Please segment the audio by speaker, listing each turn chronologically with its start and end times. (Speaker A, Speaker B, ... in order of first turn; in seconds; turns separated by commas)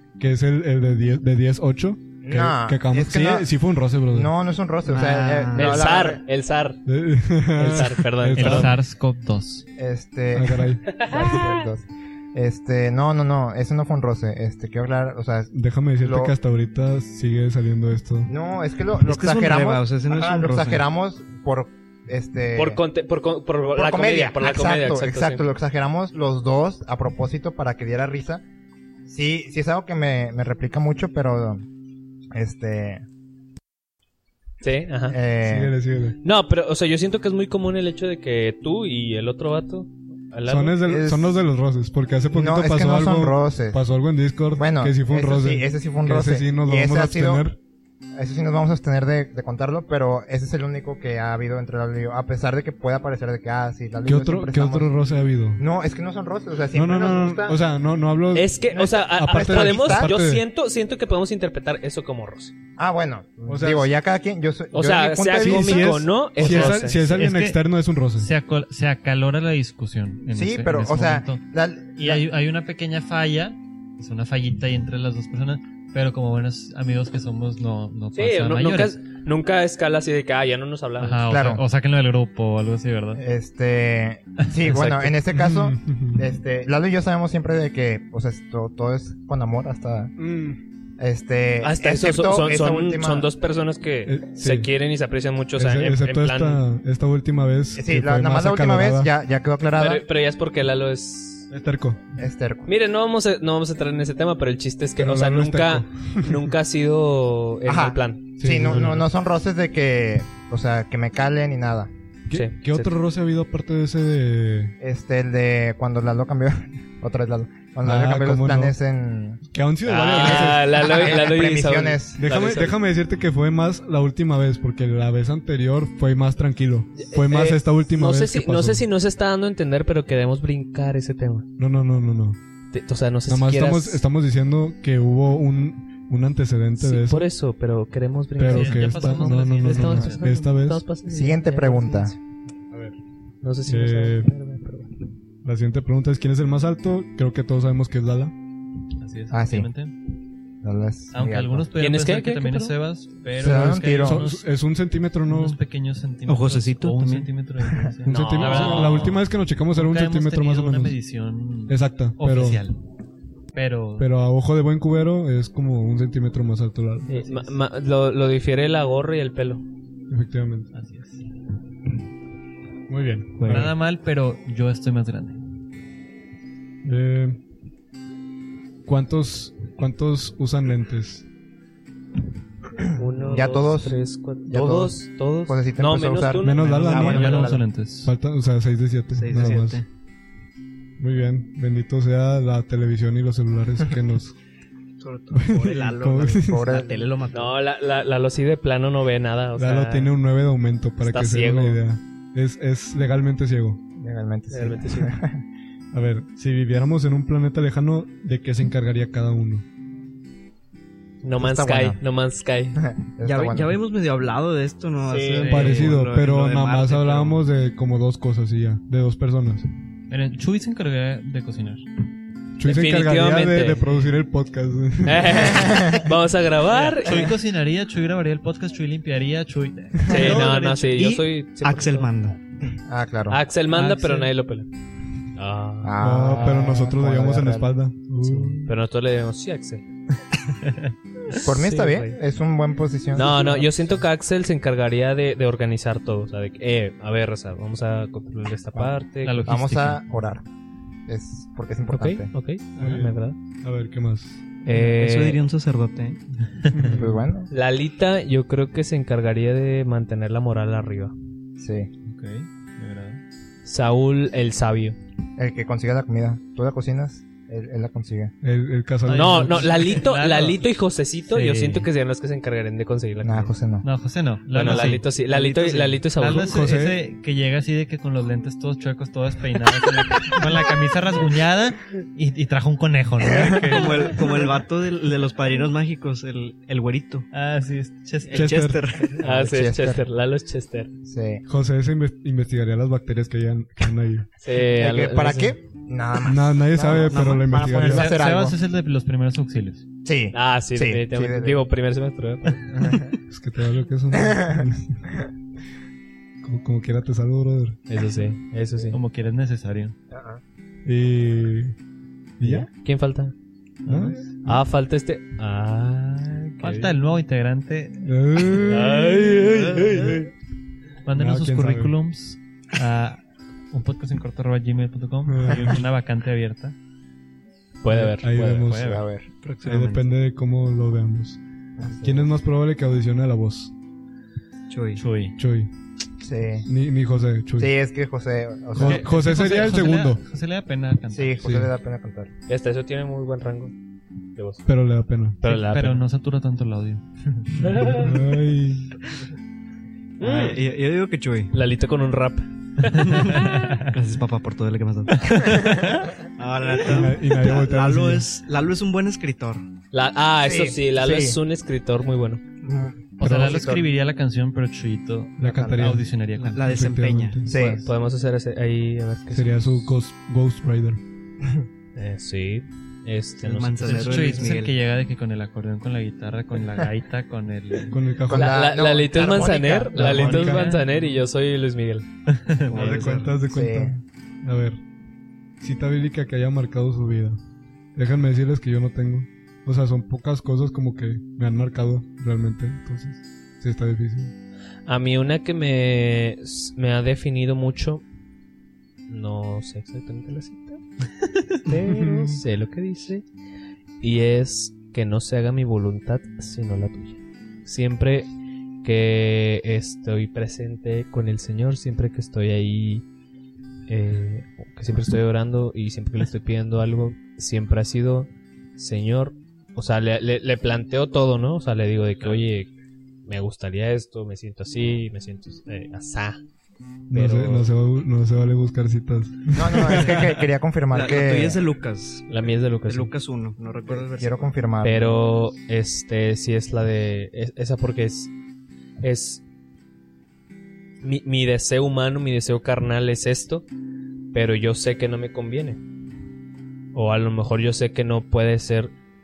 Speaker A: 0.2-4.3, Speaker B: 2.2-3.5, Speaker B: 4.1-6.2, Speaker C: 4.8-5.8, Speaker D: 5.5-6.8, Speaker A: 6.8-8.7, Speaker D: 7.5-8.7, Speaker E: 8.3-9.7, Speaker B: 9.8-16.3, Speaker A: 10.3-10.9, Speaker D: 10.9-11.6, Speaker A: 15.5-18.3, Speaker B: 18.3-22.8, Speaker C: 19.0-20.9, Speaker D: 22.5-25.4, Speaker B: 23.7-28.4, Speaker B: 29.1-31.6, Speaker B: 32.3-33.0, Speaker D: 34.6-35.2, Speaker B: 35.1-35.7, Speaker A: 35.4-36.2, Speaker D: 36.2-40.8, Speaker A: 40.5-47.6, Speaker B: 40.8-41.4, Speaker B: 42.3-43.8, Speaker B: 44.5-47.4, Speaker B: 48.1-54.9, Speaker A: 54.0-55.6, Speaker B: 55.6-57.6, Speaker A: 56.7-58.5, Speaker D: 58.3-62.5, Speaker B: 58.7-60.1, Speaker A: 59.1-60.4, Speaker B: 62.8-66.0, Speaker A: 63.5-63.9, Speaker D: 64.7-67.0, Speaker A: 65.4-68.3, Speaker E: 66.4-67.6, Speaker E: 68.2-71.4, Speaker B: 70.3-72.2, Speaker E: 72.0-79.0, Speaker D: 78.1-81.2, Speaker E: 81.0-83.2, Speaker B: 81.3-81.6, Speaker B: 83.2-90.1, Speaker D: 84.7-85.0, Speaker A: 85.3-86.4, Speaker A: 90.2-90.6, Speaker B: 91.0-93.3, Speaker D: 91.6-96.6, Speaker A: 94.0-94.7, Speaker A: 95.5-99.1, Speaker B: 97.7-100.0, Speaker D: 99.8-101.5, Speaker A: 101.5-102.0, Speaker B: 102.2-102.7, Speaker D: 102.7-108.2, Speaker A: 105.0-106.5, Speaker B: 107.7-111.9, Speaker A: 108.4-109.1, Speaker A: 112.3-114.7, Speaker D: 112.3-112.9, Speaker B: 114.8-119.4, Speaker A: 117.8-118.8, Speaker A: 119.5-120.9, Speaker D: 119.8-122.8, Speaker B: 120.0-122.2, Speaker A: 122.2-128.8, Speaker D: 127.0-131.5, Speaker A: 131.6-132.4, Speaker D: 132.7-134.0, Speaker A: 133.3-137.3, Speaker D: 136.8-142.2, Speaker A: 138.4-140.8, Speaker E: 138.4-140.3, Speaker B: 141.1-142.1, Speaker A: 142.7-143.0, Speaker D: 143.4-144.9, Speaker A: 143.7-144.3, Speaker A: 145.4-148.3, Speaker E: 149.0-149.9, Speaker B: 149.3-149.7, Speaker B: 150.6-151.7, Speaker E: 151.1-154.5, Speaker D: 151.8-152.7, Speaker B: 153.3-154.2, Speaker A: 153.4-155.6, Speaker E: 155.2-162.8, Speaker C: 156.3-157.3, Speaker A: 158.0-161.0, Speaker D: 158.1-159.2, Speaker A: 161.7-162.6, Speaker E: 163.5-164.1, Speaker A: 164.0-167.1, Speaker D: 167.1-169.6, Speaker A: 170.1-170.7, Speaker E: 170.7-171.3, Speaker A: 172.9-173.7, Speaker C: 173.4-173.7, Speaker E: 173.4-175.4, Speaker A: 176.8-177.4, Speaker A: 178.8-181.2, Speaker D: 182.9-186.7, Speaker B: 183.2-187.6, Speaker A: 186.4-189.8, Speaker E: 186.6-188.1, Speaker C: 186.9-187.5, Speaker C: 189.1-189.8, Speaker A: 191.0-194.3, Speaker C: 195.0-197.5, Speaker A: 195.3-196.7, Speaker B: 196.4-197.1, Speaker D: 197.3-200.1, Speaker A: 199.6-203.8, Speaker D: 201.0-201.8, Speaker B: 204.0-205.4, Speaker D: 204.5-205.1, Speaker A: 205.9-209.6, Speaker D: 211.2-212.8, Speaker B: 211.4-212.0, Speaker B: 212.8-213.8, Speaker C: 213.2-217.4, Speaker B: 215.1-215.4, Speaker E: 215.3-215.9, Speaker A: 215.4-219.7, Speaker E: 220.1-221.8, Speaker A: 222.6-225.7, Speaker D: 222.6-223.8, Speaker E: 223.8-224.2, Speaker D: 225.0-227.3, Speaker B: 225.5-226.1, Speaker E: 226.7-230.8, Speaker D: 230.1-232.1, Speaker B: 230.1-230.4, Speaker C: 230.2-232.4, Speaker B: 232.8-233.4, Speaker D: 233.3-234.7, Speaker E: 233.7-234.3, Speaker D: 235.3-236.2, Speaker B: 235.8-237.7, Speaker A: 236.0-238.7, Speaker B: 238.2-238.5, Speaker D: 238.6-239.8, Speaker E: 240.6-240.9, Speaker D: 241.3-242.2, Speaker B: 241.4-243.7, Speaker D: 243.1-249.5, Speaker B: 248.7-250.4, Speaker E: 249.2-250.0, Speaker B: 251.1-252.3, Speaker D: 251.9-253.4, Speaker A: 252.8-254.4, Speaker D: 254.6-255.4, Speaker C: 254.7-256.2, Speaker E: 256.6-257.0, Speaker A: 256.7-257.3, Speaker B: 256.8-257.5, Speaker D: 257.5-261.1, Speaker B: 261.6-261.9, Speaker E: 262.0-263.2, Speaker D: 263.6-264.9, Speaker B: 265.4-268.3, Speaker A: 268.4-269.8, Speaker E: 269.1-270.6, Speaker D: 269.1-273.5, Speaker E: 271.3-271.9, Speaker B: 273.2-273.9, Speaker E: 273.8-275.2, Speaker D: 274.5-276.5, Speaker C: 275.3-276.0, Speaker E: 276.1-284.3, Speaker A: 276.4-277.0, Speaker C: 283.6-287.3, Speaker E: 287.3-288.6, Speaker C: 288.3-289.2, Speaker A: 288.3-288.8, Speaker B: 289.1-290.0, Speaker D: 289.2-290.9, Speaker B: 291.0-291.4, Speaker A: 291.5-294.3, Speaker D: 294.4-295.5, Speaker B: 294.7-298.6, Speaker A: 296.2-298.1, Speaker C: 297.0-298.0, Speaker E: 297.7-299.9, Speaker B: 300.0-301.6, Speaker D: 300.3-302.7, Speaker B: 302.7-303.2, Speaker A: 303.3-305.1, Speaker B: 304.2-304.6, Speaker A: 306.4-307.8, Speaker D: 307.9-309.0, Speaker E: 308.9-309.9, Speaker B: 310.1-310.4, Speaker A: 310.8-311.8, Speaker A: 312.4-312.7, Speaker D: 312.4-313.3, Speaker E: 313.8-314.3, Speaker A: 313.9-314.6, Speaker D: 314.4-317.0, Speaker E: 316.6-318.9, Speaker A: 318.0-320.1, Speaker D: 318.5-320.3, Speaker C: 319.5-320.0, Speaker E: 321.0-326.7, Speaker A: 321.1-321.9, Speaker A: 325.2-325.8, Speaker D: 327.8-328.7, Speaker A: 327.9-328.9, Speaker E: 328.3-329.1, Speaker B: 328.8-329.3, Speaker C: 329.4-330.1, Speaker A: 329.6-331.4, Speaker B: 331.8-332.3, Speaker A: 332.0-333.7, Speaker C: 334.7-335.0, Speaker E: 335.0-335.4, Speaker A: 335.4-335.7, Speaker B: 336.2-336.7, Speaker A: 336.6-337.7, Speaker B: 337.6-339.1, Speaker A: 338.7-340.2, Speaker E: 338.8-341.5, Speaker B: 341.1-342.3, Speaker A: 341.4-341.7, Speaker D: 342.5-343.7, Speaker D: 344.4-344.6, Speaker A: 344.6-345.4, Speaker D: 345.4-346.0, Speaker E: 345.4-348.0, Speaker D: 347.6-348.1, Speaker A: 347.9-348.9, Speaker D: 350.2-350.6, Speaker C: 350.2-351.5, Speaker D: 351.5-353.5, Speaker C: 352.9-355.7, Speaker E: 353.3-353.9, Speaker E: 355.3-356.0, Speaker C: 356.4-359.6, Speaker A: 356.8-358.2, Speaker D: 359.9-362.4, Speaker B: 360.4-361.4, Speaker B: 362.6-363.9, Speaker E: 363.2-366.8, Speaker A: 363.2-363.7, Speaker A: 365.4-367.5, Speaker B: 365.4-365.9, Speaker C: 366.4-367.5, Speaker B: 367.4-367.9, Speaker D: 367.5-369.8, Speaker A: 369.3-371.0, Speaker D: 371.9-374.5, Speaker C: 373.4-374.7, Speaker E: 373.8-378.0, Speaker A: 377.9-378.6, Speaker B: 378.3-380.6, Speaker D: 378.3-382.1, Speaker A: 379.9-380.8, Speaker E: 380.1-381.2, Speaker E: 382.3-383.0, Speaker C: 382.7-383.4, Speaker A: 382.7-384.8, Speaker B: 383.4-384.0, Speaker A: 385.6-387.4, Speaker A: 387.9-394.3, Speaker D: 394.9-398.0, Speaker D: 399.1-400.8, Speaker D: 401.6-403.2, Speaker A: 401.9-402.4, Speaker D: 404.0-408.3, Speaker D: 408.8-413.1, Speaker D: 413.9-422.7, Speaker D: 423.2-426.4, Speaker D: 427.1-427.7, Speaker A: 427.1-430.2, Speaker B: 429.5-431.6, Speaker C: 429.8-434.5, Speaker D: 432.3-433.1, Speaker B: 433.9-435.2, Speaker D: 434.8-438.3, Speaker D: 439.0-439.4, Speaker D: 441.0-443.6, Speaker D: 444.3-445.8, Speaker D: 446.9-448.9